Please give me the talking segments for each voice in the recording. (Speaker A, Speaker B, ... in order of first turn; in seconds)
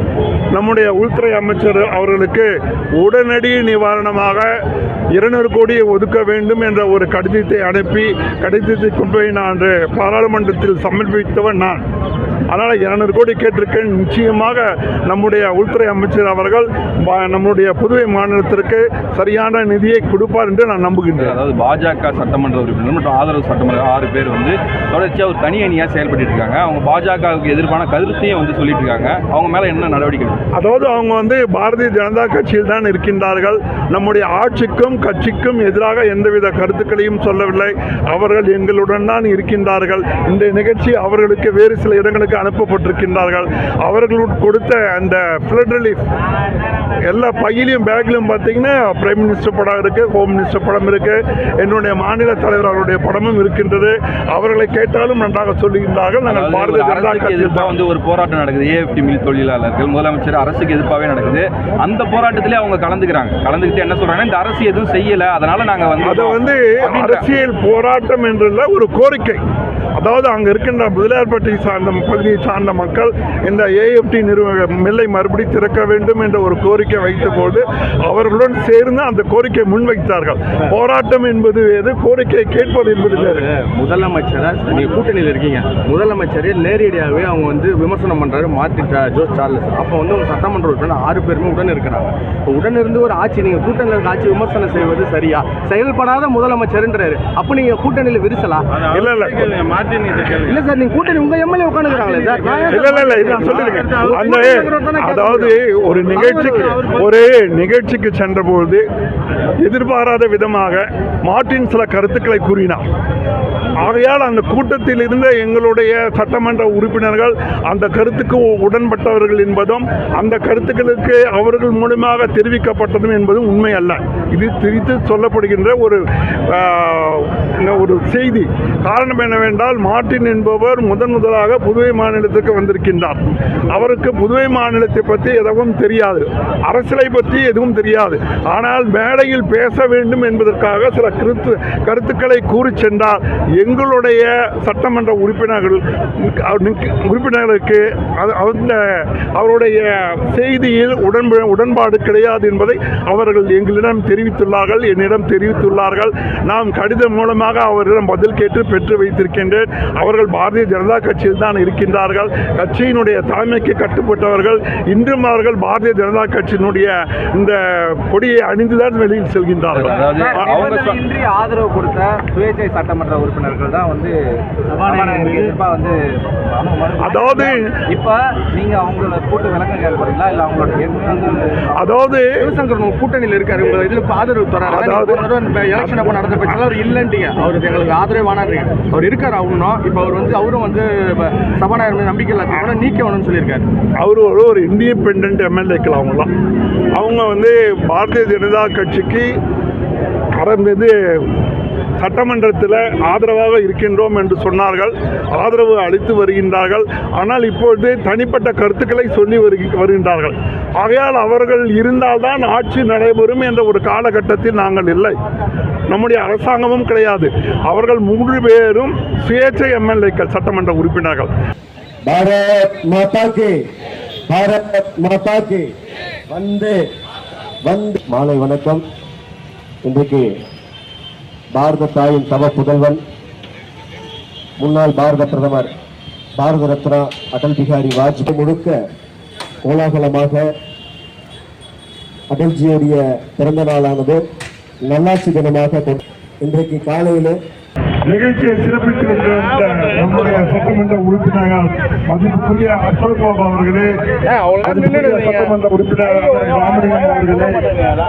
Speaker A: 0.5-4.5, 5.1-11.8, 12.5-21.4, 30.5-46.0, 47.1-57.7, 66.0-69.4, 70.0-83.5, 98.9-99.5, 102.7-108.8, 109.6-112.8, 113.8-170.5, 177.0-177.8, 181.7-182.4, 184.7-186.6, 194.0-196.3, 196.9-199.3, 200.4-201.3, 202.0-215.1, 215.9-221.3, 248.1-253.9, 254.6-257.6
Speaker B: 21.2-30.4, 56.3-67.2, 169.7-171.0
Speaker C: 83.1-98.8, 100.2-105.5, 106.1-106.9, 182.4-193.7, 254.2-255.5
Speaker D: 170.0-174.2, 174.7-181.7
Speaker E: 222.0-223.6, 224.3-225.7, 226.3-226.8, 227.6-228.8, 229.8-230.3, 231.5-233.0, 234.6-235.7, 236.4-238.8, 239.6-240.5, 242.3-244.3, 244.8-247.4